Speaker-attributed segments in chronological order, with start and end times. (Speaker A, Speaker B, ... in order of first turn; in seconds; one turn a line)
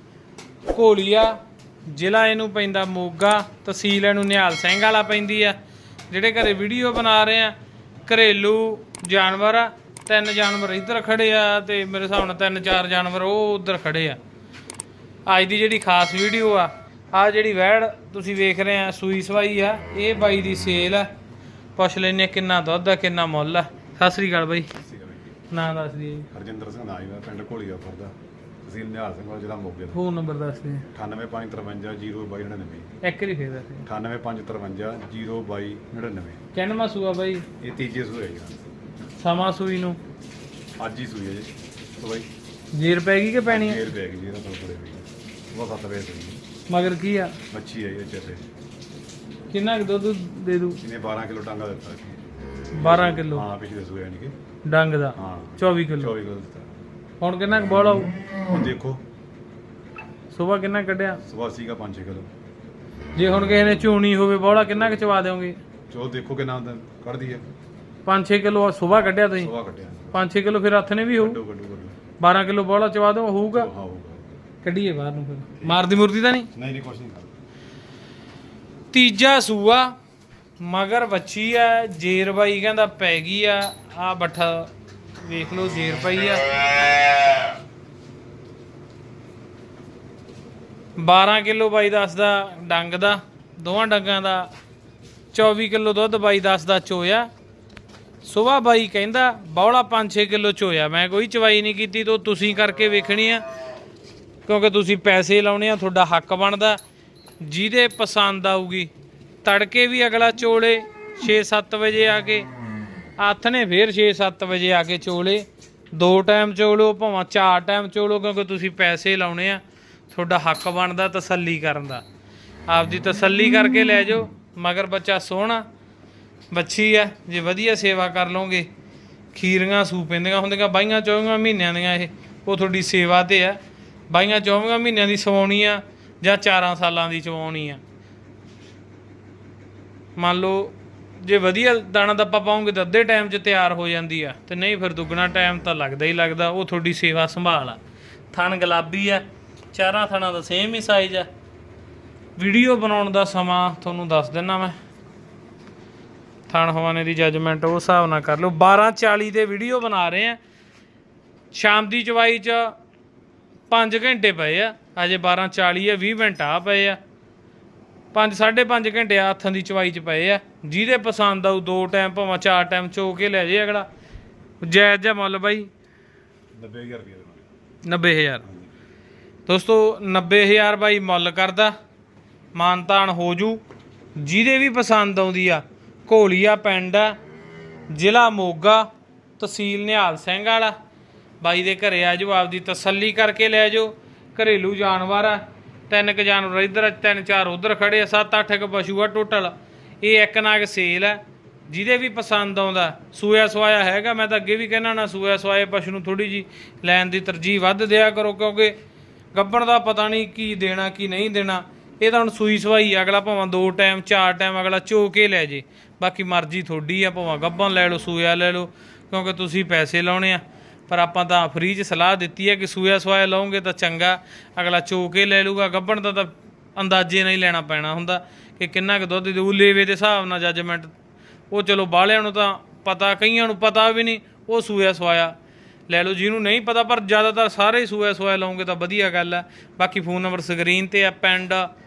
Speaker A: 0.7-1.4
Speaker A: 1.9-5.6
Speaker A: 6.1-7.5
Speaker A: 8.1-14.2
Speaker A: 15.3-21.1
Speaker A: 21.8-24.7
Speaker B: 24.8-25.3
Speaker A: 25.5-26.3
Speaker B: 26.3-30.0
Speaker A: 29.9-30.9
Speaker B: 30.9-32.9
Speaker A: 33.0-33.9
Speaker B: 33.9-36.4
Speaker A: 36.5-37.5
Speaker B: 37.6-38.6
Speaker A: 39.2-40.0
Speaker B: 40.8-42.3
Speaker A: 42.7-43.9
Speaker B: 43.5-46.4
Speaker A: 46.7-47.4
Speaker B: 47.5-48.5
Speaker A: 49.5-50.8
Speaker B: 50.8-52.2
Speaker A: 52.7-53.5
Speaker B: 52.8-54.4
Speaker A: 54.7-56.1
Speaker B: 55.2-56.7
Speaker A: 57.2-58.1
Speaker B: 58.5-59.0
Speaker A: 60.3-61.2
Speaker B: 61.2-62.3
Speaker A: 63.2-65.6
Speaker B: 64.5-65.1
Speaker B: 65.9-67.5
Speaker A: 68.1-69.5
Speaker B: 69.3-70.2
Speaker A: 70.1-71.4
Speaker B: 71.1-72.0
Speaker A: 72.2-73.7
Speaker B: 73.5-74.4
Speaker A: 74.6-76.5
Speaker B: 76.5-77.3
Speaker A: 78.9-79.9
Speaker A: 80.6-86.5
Speaker A: 91.0-94.5
Speaker A: 95.3-97.3
Speaker A: 98.2-103.4
Speaker A: 104.5-106.8
Speaker A: 107.4-108.9
Speaker A: 109.4-112.5
Speaker A: 113.2-122.0
Speaker A: 122.7-125.7
Speaker A: 126.5-128.7
Speaker A: 129.3-133.6
Speaker A: 134.1-137.8
Speaker A: 140.2-147.8
Speaker A: 148.3-151.3
Speaker A: 152.4-154.8
Speaker A: 156.5-160.4
Speaker A: 161.5-162.7
Speaker A: 163.7-167.0
Speaker A: 168.1-173.9
Speaker A: 174.6-175.7
Speaker B: 176.6-177.5
Speaker A: 177.8-178.4
Speaker B: 178.4-178.7
Speaker A: 179.5-181.7
Speaker A: 182.5-183.6
Speaker A: 184.2-187.2
Speaker A: 187.9-188.9
Speaker A: 189.4-190.8
Speaker A: 191.4-208.7
Speaker A: 209.3-230.9
Speaker A: 231.5-235.3
Speaker A: 235.9-241.7